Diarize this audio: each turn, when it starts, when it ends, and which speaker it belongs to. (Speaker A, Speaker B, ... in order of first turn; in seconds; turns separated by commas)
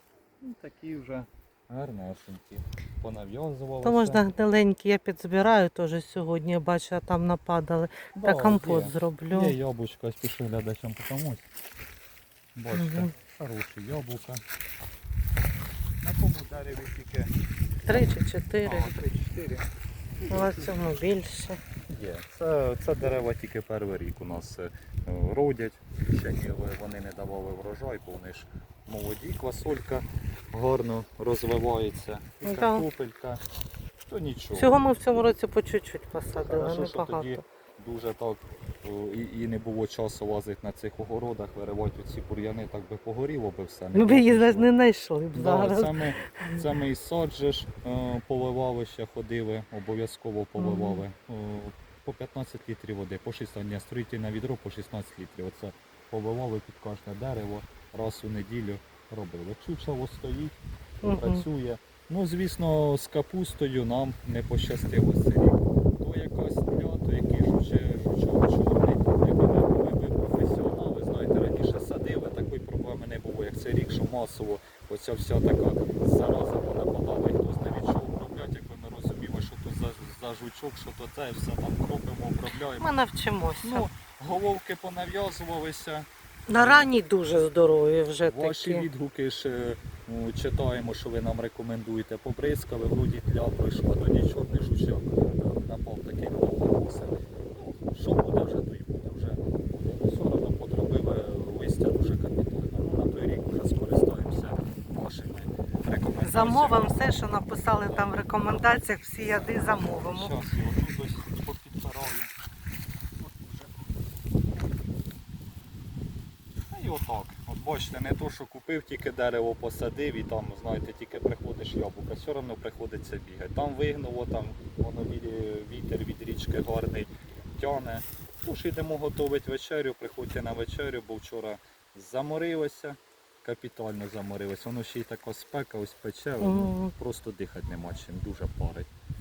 Speaker A: 0.4-4.2, Speaker B: 3.8-9.6, Speaker A: 8.2-11.4, Speaker A: 12.6-14.4, Speaker B: 12.7-13.1, Speaker A: 16.0-17.3, Speaker A: 17.9-19.7, Speaker B: 17.9-19.0, Speaker A: 20.2-20.9, Speaker B: 20.3-21.6, Speaker A: 21.9-33.4, Speaker B: 32.4-32.9, Speaker A: 34.1-34.8, Speaker B: 34.5-37.4, Speaker A: 36.4-44.7, Speaker B: 43.9-46.7, Speaker A: 45.3-60.5, Speaker B: 50.6-51.0, Speaker B: 61.0-61.5, Speaker A: 61.2-82.9, Speaker B: 82.8-83.9, Speaker A: 83.6-86.9, Speaker B: 86.5-88.9, Speaker A: 88.2-107.2, Speaker B: 106.2-110.3, Speaker A: 107.8-108.2, Speaker A: 109.4-112.3, Speaker A: 113.2-113.7, Speaker A: 116.7-138.9, Speaker B: 136.4-136.9